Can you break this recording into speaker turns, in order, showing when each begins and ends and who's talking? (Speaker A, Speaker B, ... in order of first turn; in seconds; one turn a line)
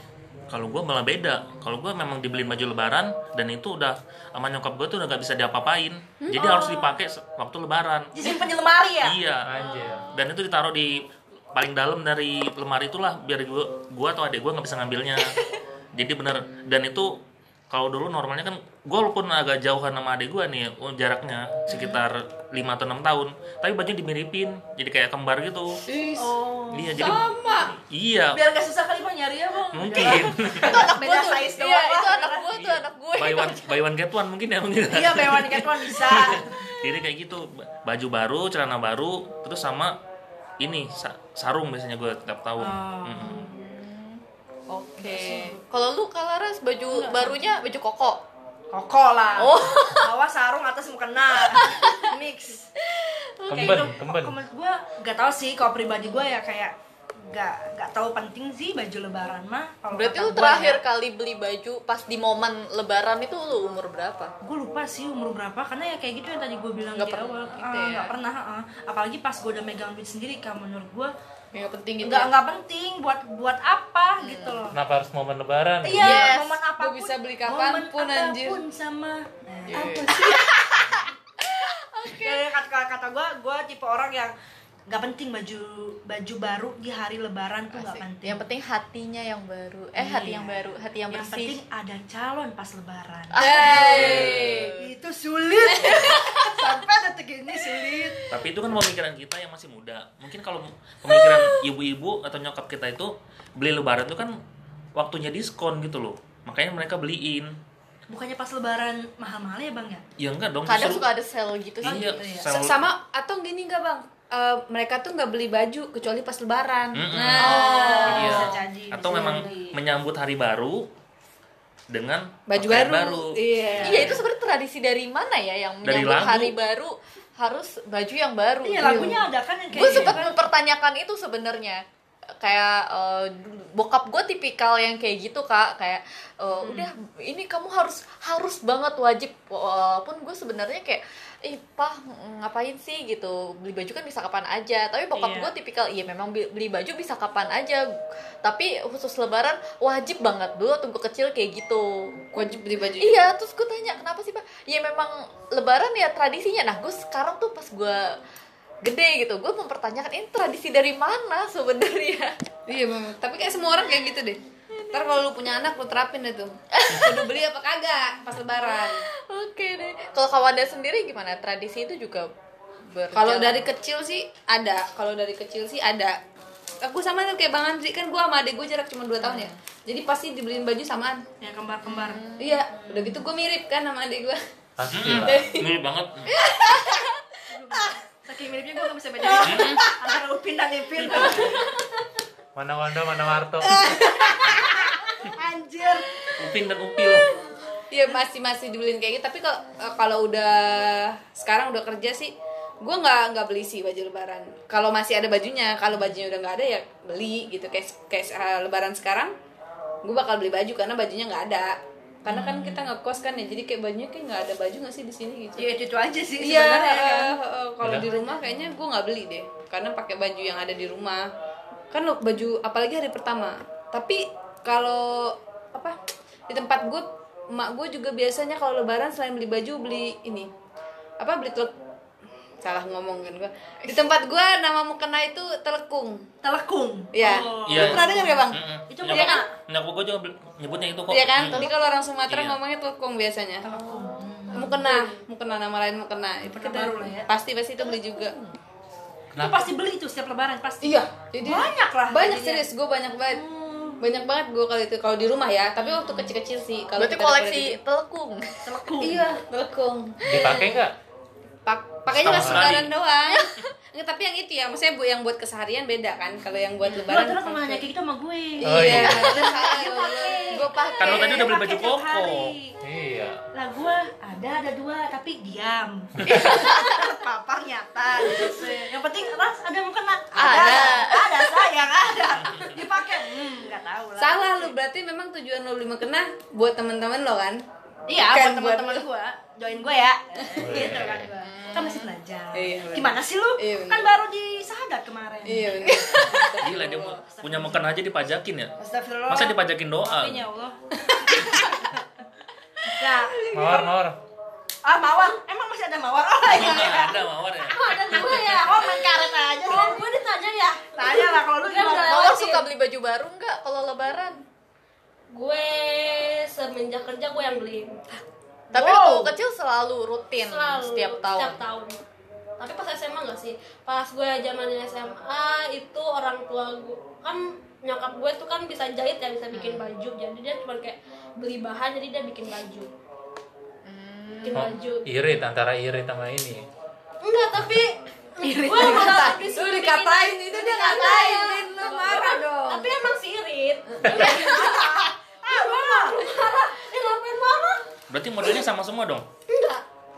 Speaker A: 0.5-8.1
Speaker B: 6.2-6.6
Speaker C: 6.3-6.9
Speaker C: 8.1-9.2
Speaker A: 9.0-11.0
Speaker D: 9.4-10.1
Speaker E: 9.6-10.1
Speaker A: 11.5-15.4
Speaker A: 15.9-25.8
Speaker B: 25.9-26.4
Speaker C: 26.1-27.3
Speaker A: 26.7-28.4
Speaker B: 27.0-27.5
Speaker C: 28.3-32.5
Speaker A: 29.7-30.9
Speaker E: 30.6-33.7
Speaker A: 32.5-40.0
Speaker C: 34.9-36.7
Speaker A: 40.6-43.4
Speaker C: 42.6-43.5
Speaker E: 43.2-48.2
Speaker B: 45.0-45.6
Speaker C: 46.9-47.4
Speaker C: 48.7-52.7
Speaker E: 49.4-50.1
Speaker E: 51.4-52.0
Speaker C: 53.4-60.8
Speaker D: 53.5-54.4
Speaker E: 59.9-64.3
Speaker C: 64.4-71.1
Speaker E: 66.9-68.1
Speaker E: 71.5-72.3
Speaker C: 72.0-74.8
Speaker E: 74.2-74.7
Speaker D: 74.7-76.2
Speaker C: 75.8-81.0
Speaker E: 75.9-76.6
Speaker B: 76.8-78.6
Speaker E: 79.7-80.3
Speaker B: 79.7-80.5
Speaker E: 81.4-82.4
Speaker C: 82.1-84.3
Speaker C: 84.9-88.4
Speaker E: 87.7-91.6
Speaker C: 90.0-94.2
Speaker E: 93.3-94.9
Speaker B: 93.3-94.8
Speaker A: 93.8-94.3
Speaker C: 94.8-98.2
Speaker B: 95.6-96.6
Speaker E: 95.9-96.5
Speaker A: 98.3-104.4
Speaker A: 104.9-107.5
Speaker C: 108.1-110.0
Speaker A: 110.2-111.0
Speaker E: 110.7-112.3
Speaker A: 111.8-112.8
Speaker C: 111.9-112.5
Speaker B: 112.5-118.4
Speaker A: 116.9-120.9
Speaker E: 117.3-118.4
Speaker C: 117.4-119.7
Speaker D: 118.1-118.5
Speaker B: 119.0-119.6
Speaker A: 121.9-124.2
Speaker B: 122.5-124.2
Speaker E: 123.8-131.8
Speaker A: 125.8-126.6
Speaker C: 128.6-130.3
Speaker B: 128.8-129.2
Speaker E: 132.4-152.2
Speaker C: 136.6-136.8
Speaker C: 145.1-145.5
Speaker B: 152.3-153.3
Speaker E: 153.0-158.2
Speaker E: 158.8-162.3
Speaker B: 162.7-169.1
Speaker E: 166.7-167.4
Speaker E: 168.6-172.3
Speaker E: 172.9-173.7
Speaker B: 173.1-176.2
Speaker B: 176.8-181.2
Speaker E: 179.2-179.6
Speaker C: 181.4-183.2
Speaker E: 181.8-182.6
Speaker B: 182.4-184.4
Speaker D: 184.8-185.5
Speaker A: 184.8-186.3
Speaker B: 185.1-185.7
Speaker B: 186.3-187.9
Speaker C: 187.5-191.7
Speaker B: 189.2-189.9
Speaker A: 189.4-189.8
Speaker D: 192.6-194.0
Speaker B: 193.7-194.8
Speaker C: 193.9-196.2
Speaker A: 196.3-197.3
Speaker B: 197.9-209.3
Speaker B: 210.0-215.7
Speaker C: 212.3-212.9
Speaker C: 215.6-217.4
Speaker B: 216.4-221.3
Speaker D: 217.8-218.1
Speaker B: 221.9-225.9
Speaker B: 226.5-230.5
Speaker B: 231.2-231.7
Speaker B: 232.6-236.2
Speaker E: 233.8-234.1
Speaker C: 236.4-239.5
Speaker B: 237.1-239.5
Speaker A: 237.7-241.7
Speaker B: 241.1-243.8
Speaker A: 242.3-242.6
Speaker C: 243.6-245.0
Speaker B: 244.5-248.3
Speaker C: 246.4-247.3
Speaker E: 247.8-248.5
Speaker D: 249.3-249.7
Speaker C: 249.3-252.7
Speaker B: 250.8-253.4
Speaker C: 253.3-254.0
Speaker B: 254.0-257.8
Speaker C: 255.8-256.3
Speaker E: 257.0-258.6
Speaker C: 258.6-259.3
Speaker B: 259.0-260.7
Speaker D: 260.2-260.9
Speaker B: 261.6-267.9
Speaker A: 262.1-262.9
Speaker D: 262.2-262.8
Speaker C: 267.0-272.8
Speaker B: 268.6-271.5
Speaker D: 268.6-269.4
Speaker E: 268.8-269.7
Speaker A: 271.0-272.5
Speaker D: 272.8-273.4
Speaker C: 273.5-284.7
Speaker D: 276.2-276.6
Speaker E: 276.3-277.0
Speaker B: 280.3-281.1
Speaker E: 280.4-281.6
Speaker B: 284.2-289.1
Speaker C: 288.1-296.5
Speaker B: 290.4-290.6
Speaker D: 290.6-291.3
Speaker E: 291.3-292.1
Speaker B: 292.5-294.1
Speaker B: 295.4-297.2
Speaker A: 296.3-298.7
Speaker C: 297.2-297.9
Speaker C: 298.8-301.9
Speaker A: 299.3-300.5
Speaker B: 301.1-301.9
Speaker C: 302.8-303.9
Speaker D: 303.5-304.2
Speaker C: 304.8-310.2
Speaker A: 306.4-308.4
Speaker F: 307.6-312.6
Speaker C: 310.8-312.4
Speaker E: 312.1-314.4
Speaker F: 315.3-318.0
Speaker C: 318.7-319.3
Speaker E: 318.7-321.6
Speaker F: 320.4-322.0
Speaker F: 322.6-332.9
Speaker E: 329.5-329.9
Speaker E: 333.8-334.7
Speaker F: 334.4-335.1
Speaker D: 334.5-336.6
Speaker F: 337.2-347.8
Speaker C: 338.4-339.4
Speaker B: 338.7-343.0
Speaker C: 344.0-346.3
Speaker A: 348.1-349.2
Speaker F: 349.5-349.8